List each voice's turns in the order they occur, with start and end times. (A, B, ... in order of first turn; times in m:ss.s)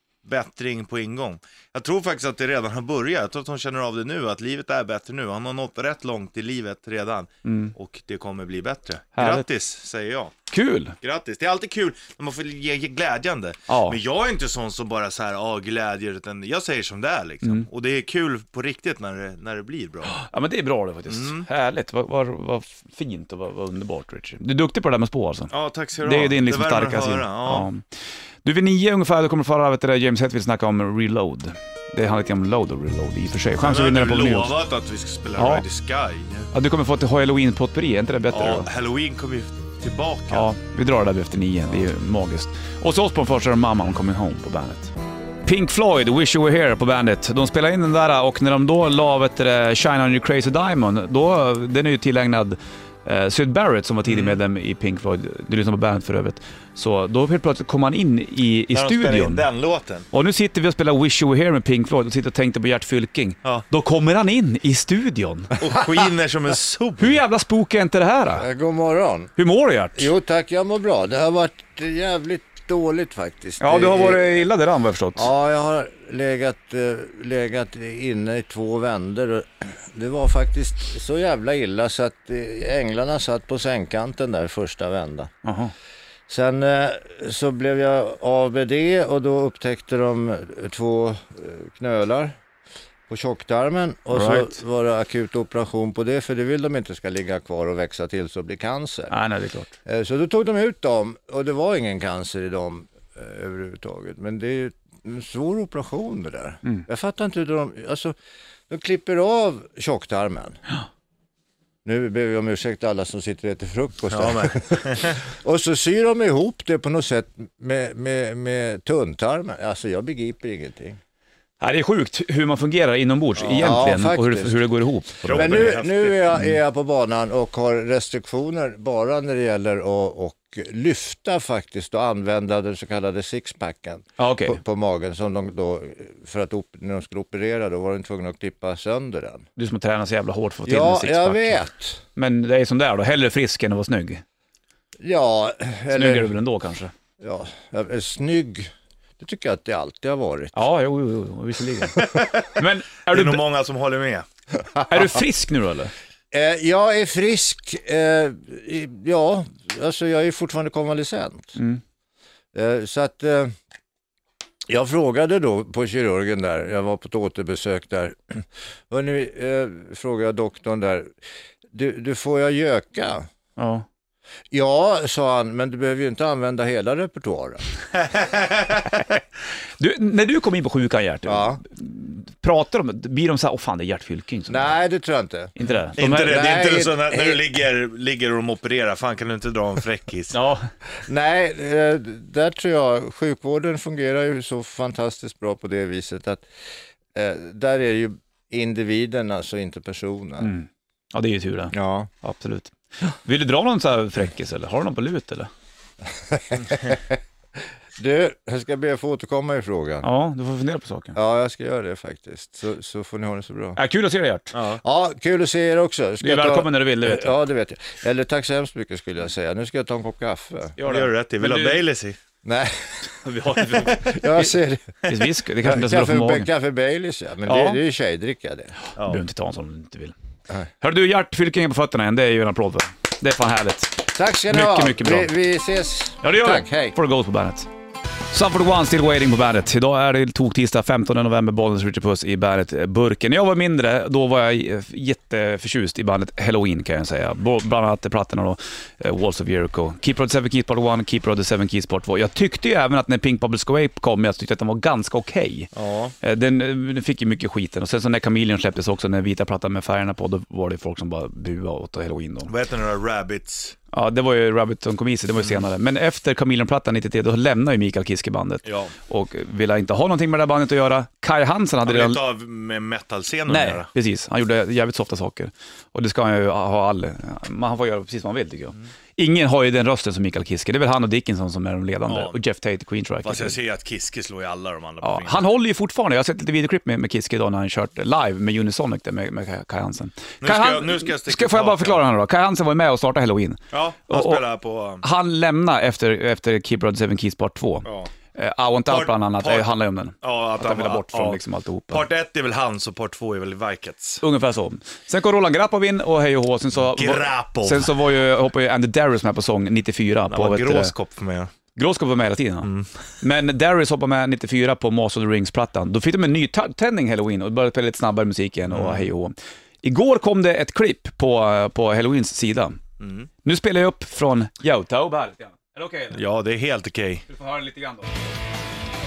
0:00.2-0:10.3 A
0:07.4-0:07.7 B
0:09.2-0:09.5 B
0:10.5-0:11.0 B
0:11.0-0:20.2 A
0:13.7-0:14.0 B
0:20.1-0:25.5 B
0:21.1-0:21.5 A
0:25.5-0:27.7 A
0:26.0-0:27.8 B
0:28.4-0:34.5 B
0:33.6-0:36.5 A
0:35.4-0:35.6 B
0:36.5-0:38.7 B
0:38.3-0:40.5 A
0:40.3-0:44.9 B
0:45.4-0:59.5 B
0:54.1-0:54.4 A
0:58.7-1:00.1 A
1:00.1-1:05.5 B
1:05.6-1:07.2 A
1:07.0-1:08.5 B
1:08.4-1:09.3 C
1:09.4-1:10.1 B
1:10.0-1:14.4 C
1:13.6-1:15.3 B
1:15.2-1:25.3 C
1:25.4-1:25.7 B
1:26.3-1:32.3 C
1:33.1-1:39.1 C
1:34.1-1:34.6 B
1:39.1-1:39.8 B
1:39.9-1:48.2 C
1:48.7-1:50.6 C
1:51.8-2:01.0 C
1:54.1-1:55.2 A
2:01.6-2:06.6 B
2:03.4-2:03.8 A
2:03.6-2:04.7 C
2:05.3-2:19.4 C
2:05.3-2:06.2 A
2:14.2-2:14.6 B
2:19.6-2:21.6 B
2:20.7-2:22.0 C
2:22.2-2:24.2 B
2:25.0-2:26.3 C
2:25.9-2:26.9 B
2:27.2-2:30.5 C
2:30.5-2:33.4 B
2:32.0-2:32.5 A
2:33.1-2:34.3 A
2:34.9-2:35.9 B
2:36.3-2:41.6 C
2:41.6-2:41.8 B
2:42.5-2:43.5 C
2:44.7-2:48.3 C
2:48.9-2:51.1 C
2:51.7-2:53.3 C
2:53.6-2:53.8 B
2:54.5-2:57.6 C
2:57.9-2:59.2 A
2:59.8-3:04.8 B
3:01.3-3:01.6 C
3:04.5-3:05.5 C
3:05.6-3:06.4 B
3:06.0-3:10.4 A
3:06.2-3:07.4 C
3:10.3-3:10.6 B
3:11.1-3:16.5 C
3:17.2-3:20.5 C
3:20.4-3:25.5 B
3:21.7-3:22.1 C
3:26.4-3:27.1 C
3:28.0-3:30.1 C
3:30.0-3:31.2 B
3:31.2-3:33.8 C
3:33.8-3:34.6 B
3:34.5-3:34.8 A
3:34.8-3:40.8 C
3:36.2-3:37.4 B
3:40.8-3:41.8 B
3:40.8-3:42.2 A
3:42.4-3:42.9 C
3:43.1-3:44.5 B
3:44.0-3:45.0 C
3:45.1-3:46.5 B
3:45.5-3:48.7 C
3:47.5-3:47.8 B
3:49.0-3:50.2 B
3:50.8-3:55.3 B
3:54.2-3:57.0 C
3:56.2-3:57.7 B
3:58.3-4:22.5 B
4:15.7-4:16.2 A
4:22.5-4:23.8 A
4:23.9-4:32.2 B
4:25.4-4:25.7 A
4:28.6-4:28.9 A
4:31.8-4:33.9 A
4:33.5-4:43.6 B
4:42.1-4:42.4 A
4:43.2-4:45.5 A
4:45.0-4:54.4 B
4:50.4-4:52.0 A
4:53.7-4:55.0 A
4:55.0-5:02.0 B
4:57.8-4:58.1 A
4:58.9-4:59.7 A
5:00.2-5:04.2 A
5:04.2-5:10.9 B
5:06.8-5:08.0 A
5:10.3-5:11.5 A
5:11.8-5:12.7 B
5:12.6-5:12.9 A
5:13.2-5:22.8 B
5:18.7-5:19.1 A
5:23.0-5:23.3 A
5:23.4-5:26.2 B
5:26.1-5:27.2 A
5:27.3-5:28.1 B